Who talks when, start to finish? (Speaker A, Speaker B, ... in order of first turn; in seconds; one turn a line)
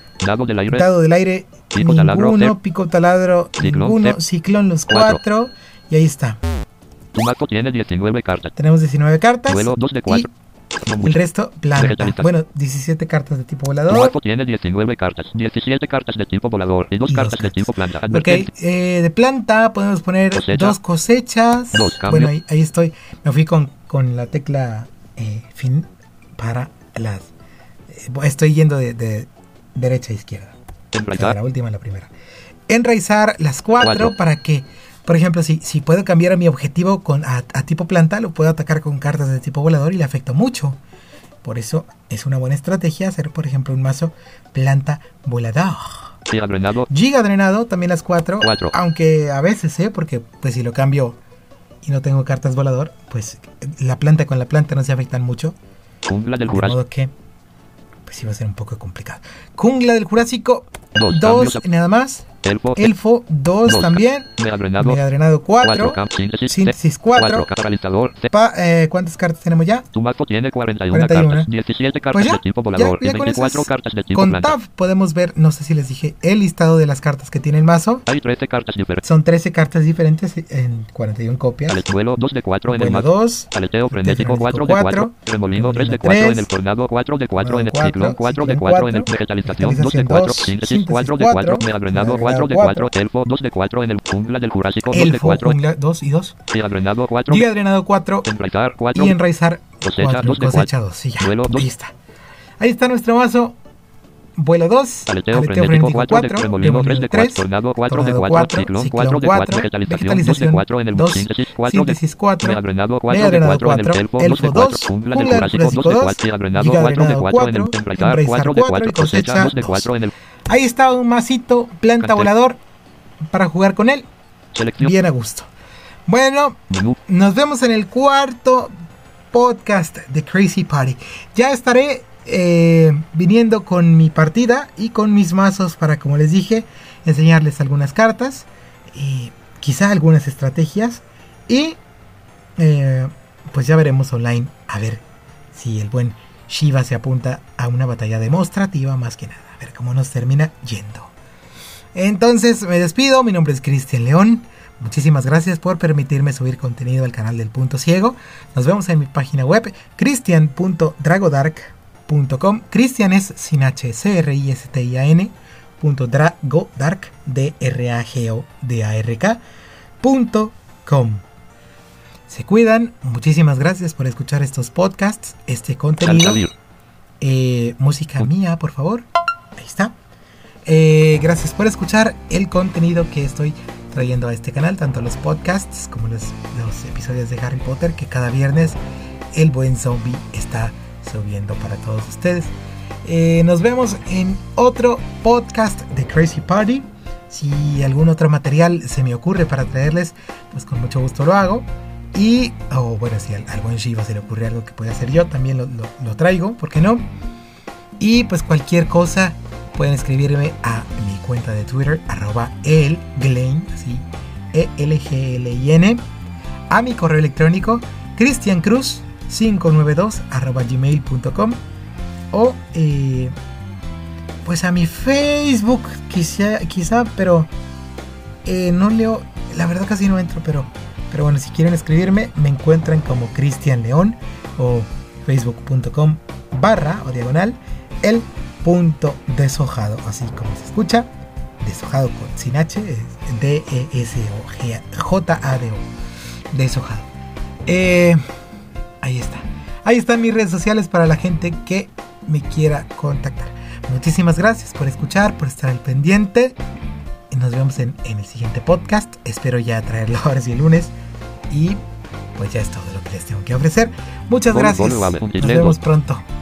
Speaker A: 0.2-0.9
Speaker B: 0.7-6.4
Speaker A: 1.7-2.6
Speaker A: 3.6-4.2
Speaker A: 4.9-5.2
Speaker A: 7.1-8.6
Speaker B: 8.6-10.3
Speaker A: 9.5-10.3
Speaker A: 10.8-11.2
Speaker B: 11.0-14.2
Speaker A: 11.8-12.3
Speaker A: 13.9-18.5
Speaker B: 17.1-27.3
Speaker A: 20.3-20.8
Speaker A: 21.7-22.3
Speaker B: 27.9-30.6
Speaker A: 30.9-31.4
Speaker B: 31.1-32.1
Speaker B: 32.7-40.8
Speaker A: 33.8-34.1
Speaker B: 41.4-46.1
Speaker A: 46.3-46.9
Speaker B: 46.9-51.2
Speaker A: 48.4-48.7
Speaker B: 51.8-55.6
Speaker A: 56.1-56.8
Speaker B: 56.5-57.1
Speaker B: 58.1-67.5
Speaker A: 61.0-61.6
Speaker A: 62.4-62.9
Speaker A: 63.7-65.0
Speaker A: 65.6-68.3
Speaker B: 68.3-69.9
Speaker A: 69.9-74.6
Speaker B: 70.9-71.5
Speaker B: 72.1-78.0
Speaker A: 78.1-79.0
Speaker B: 79.0-81.8
Speaker A: 81.7-95.6
Speaker B: 82.7-86.5
Speaker B: 87.4-92.9
Speaker B: 94.9-96.4
Speaker A: 96.5-97.5
Speaker B: 97.3-98.3
Speaker A: 98.2-99.2
Speaker B: 98.9-102.0
Speaker A: 99.8-101.7
Speaker B: 102.6-103.6
Speaker B: 104.4-119.9
Speaker A: 105.1-120.1
Speaker B: 120.5-122.6
Speaker A: 122.0-122.3
Speaker B: 123.3-124.1
Speaker A: 124.5-124.9
Speaker B: 124.8-125.5
Speaker B: 126.1-128.7
Speaker A: 126.7-127.0
Speaker B: 129.3-141.8
Speaker B: 142.6-151.1
Speaker B: 151.9-169.4
Speaker B: 170.0-171.2
Speaker B: 172.3-176.4
Speaker A: 176.0-176.5
Speaker B: 177.2-180.0
Speaker B: 180.6-188.8
Speaker B: 189.3-207.1
Speaker B: 208.0-216.0
Speaker B: 216.7-221.6
Speaker B: 222.3-223.3
Speaker B: 224.4-227.5
Speaker B: 228.4-245.9
Speaker B: 246.5-247.1
Speaker B: 247.7-248.2
Speaker B: 249.0-256.6
Speaker B: 257.3-260.9
Speaker B: 261.5-261.8
Speaker B: 262.4-266.3
Speaker A: 264.5-265.8